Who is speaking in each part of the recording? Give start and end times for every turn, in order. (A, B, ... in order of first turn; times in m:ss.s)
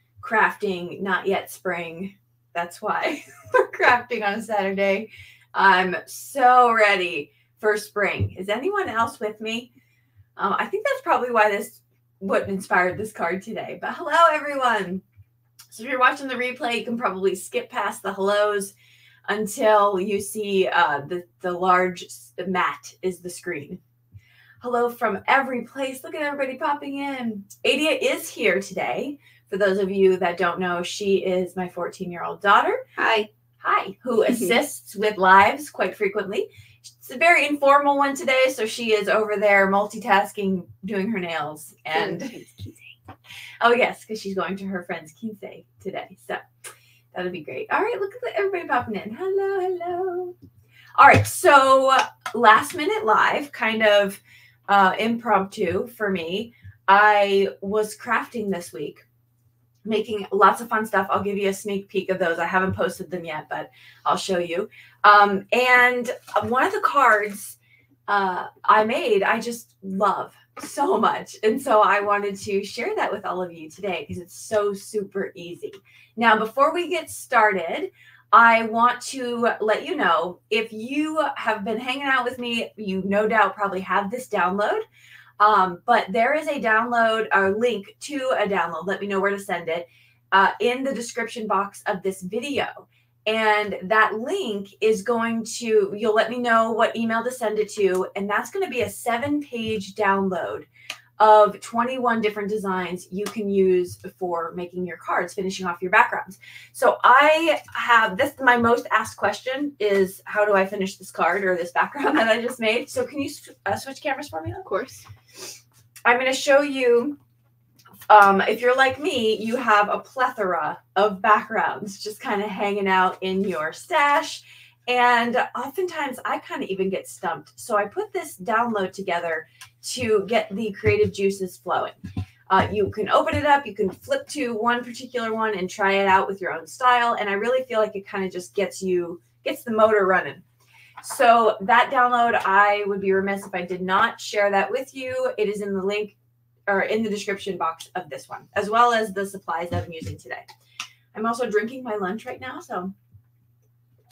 0:00.2-0:09.7 A
0:10.4-0:15.0 A
0:15.7-0:18.7 A
0:19.3-0:23.8 A
0:24.6-0:32.8 A
0:33.0-0:33.3 B
0:33.6-0:42.4 A
0:34.3-0:34.6 B
0:41.9-0:42.9 B
0:43.6-0:46.4 A
0:47.1-0:50.3 A
0:51.0-0:59.0 A
0:59.8-1:07.6 A
1:08.1-1:24.8 A
1:25.4-1:40.7 A
1:41.2-1:54.7 A
1:54.6-1:55.0 B
1:56.0-1:57.2 A
1:58.1-2:11.9 A
2:12.5-2:20.4 A
2:21.0-2:26.2 A
2:26.7-2:30.4 A
2:31.1-2:32.9 A